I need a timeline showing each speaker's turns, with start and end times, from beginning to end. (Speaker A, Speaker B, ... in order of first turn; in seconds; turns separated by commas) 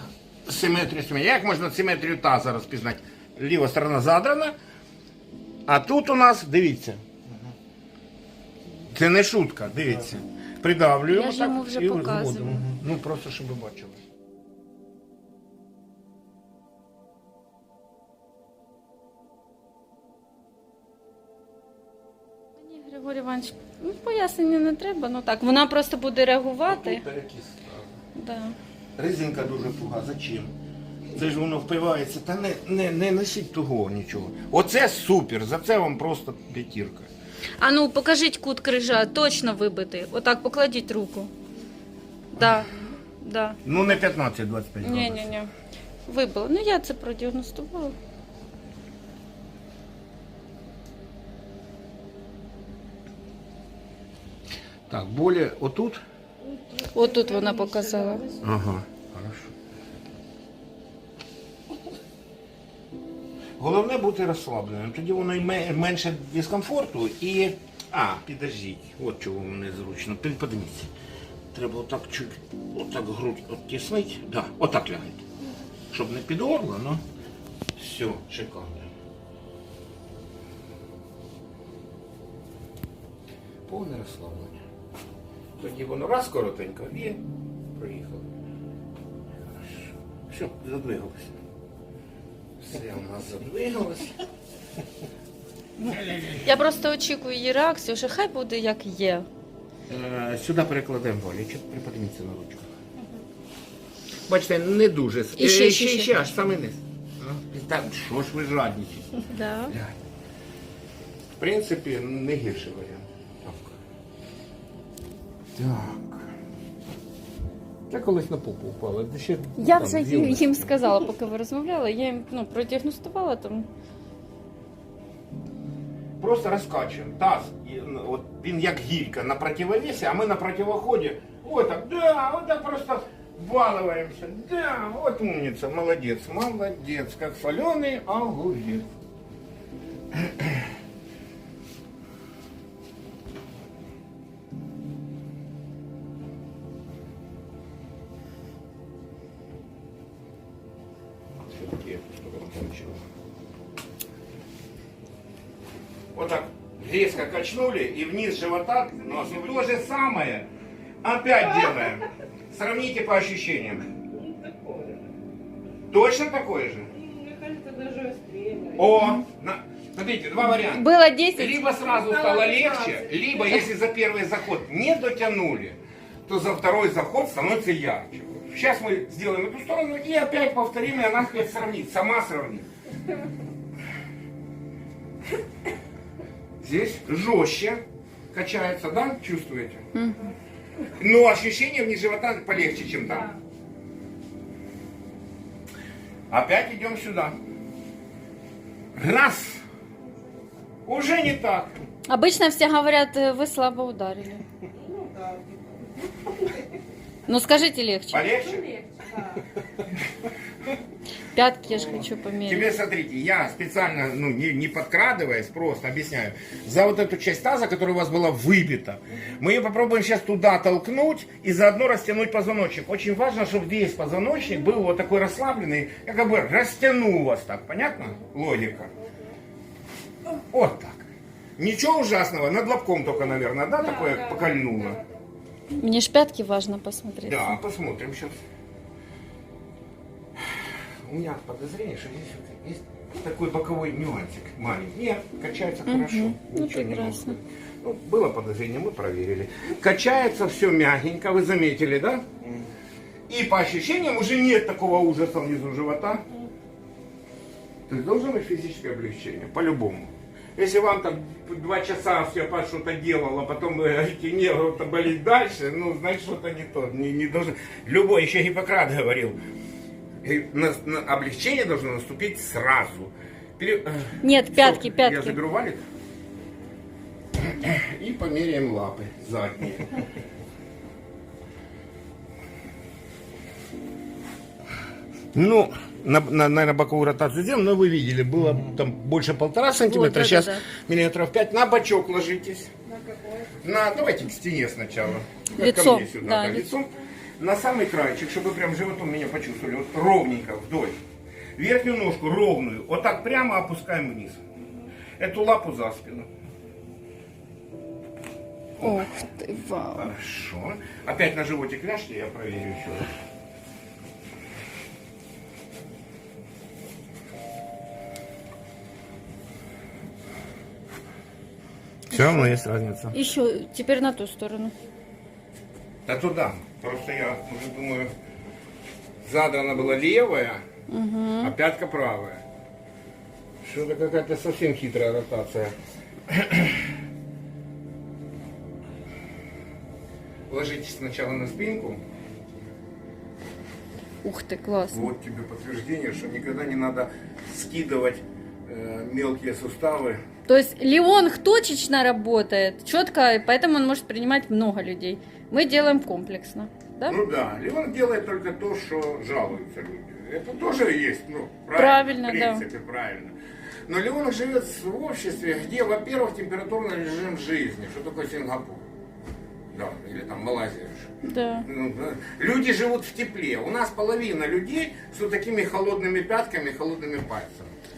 Speaker A: 0.5-4.5, Speaker A: 5.7-7.0, Speaker A: 8.9-14.0, Speaker B: 11.1-12.6, Speaker B: 22.6-27.0, Speaker A: 26.6-27.9, Speaker B: 28.2-28.6, Speaker A: 29.0-30.5, Speaker A: 31.1-37.1, Speaker B: 37.6-41.3, Speaker B: 42.3-43.6, Speaker A: 43.6-45.3, Speaker B: 44.8-45.5, Speaker B: 46.1-48.0, Speaker A: 54.9-56.0, Speaker C: 56.5-58.1, Speaker B: 56.9-58.3, Speaker A: 58.4-59.5, Speaker A: 63.6-70.9, Speaker A: 71.5-75.2, Speaker A: 75.9-77.0, Speaker A: 77.8-78.9, Speaker A: 83.7-84.6, Speaker A: 85.6-87.2, Speaker A: 87.7-88.3, Speaker A: 89.5-91.3, Speaker A: 92.6-94.2, Speaker B: 95.8-99.3, Speaker A: 96.0-96.5, Speaker A: 99.9-102.7, Speaker A: 104.3-109.9, Speaker B: 105.4-106.1, Speaker B: 109.3-109.7, Speaker A: 111.4-113.8, Speaker A: 115.6-116.3, Speaker A: 117.9-120.8, Speaker B: 119.6-123.7, Speaker A: 126.2-138.9, Speaker A: 140.1-140.5, Speaker A: 151.5-153.1, Speaker A: 156.2-160.5, Speaker A: 161.0-163.9, Speaker C: 164.3-165.0, Speaker A: 165.9-166.9, Speaker C: 167.2-168.8, Speaker A: 168.7-182.7, Speaker B: 170.4-171.8, Speaker A: 186.6-187.8, Speaker A: 188.3-189.9, Speaker B: 189.9-190.3, Speaker A: 191.0-193.3, Speaker A: 196.3-197.4, Speaker A: 199.0-199.6, Speaker A: 200.9-201.7, Speaker B: 202.1-204.4, Speaker C: 204.8-205.9, Speaker B: 207.3-208.3, Speaker A: 208.1-208.7, Speaker C: 208.7-209.4, Speaker B: 211.3-212.8, Speaker A: 212.4-228.9, Speaker A: 230.5-235.0, Speaker B: 235.7-237.6, Speaker A: 237.3-238.4, Speaker A: 241.0-252.4, Speaker B: 245.9-247.3, Speaker A: 253.3-256.2, Speaker A: 257.9-269.4, Speaker A: 270.2-275.8, Speaker B: 274.2-275.4, Speaker A: 277.4-280.0, Speaker A: 285.3-292.7, Speaker B: 289.8-290.6, Speaker A: 293.6-301.0, Speaker B: 295.5-296.7, Speaker A: 301.6-304.4, Speaker A: 305.2-306.3, Speaker A: 308.8-309.2, Speaker B: 308.8-310.1, Speaker A: 309.8-313.1, Speaker A: 322.1-323.2, Speaker B: 322.1-322.5, Speaker B: 323.1-324.7, Speaker A: 326.1-328.1, Speaker A: 329.2-330.6, Speaker B: 330.9-331.5, Speaker A: 331.4-332.4, Speaker A: 333.6-335.7, Speaker A: 336.3-336.8, Speaker A: 340.5-342.0, Speaker B: 344.2-345.1, Speaker A: 344.9-350.2, Speaker B: 350.5-357.2, Speaker A: 357.1-363.4, Speaker B: 361.8-362.6, Speaker A: 363.9-368.8, Speaker A: 369.7-377.7, Speaker B: 371.2-371.7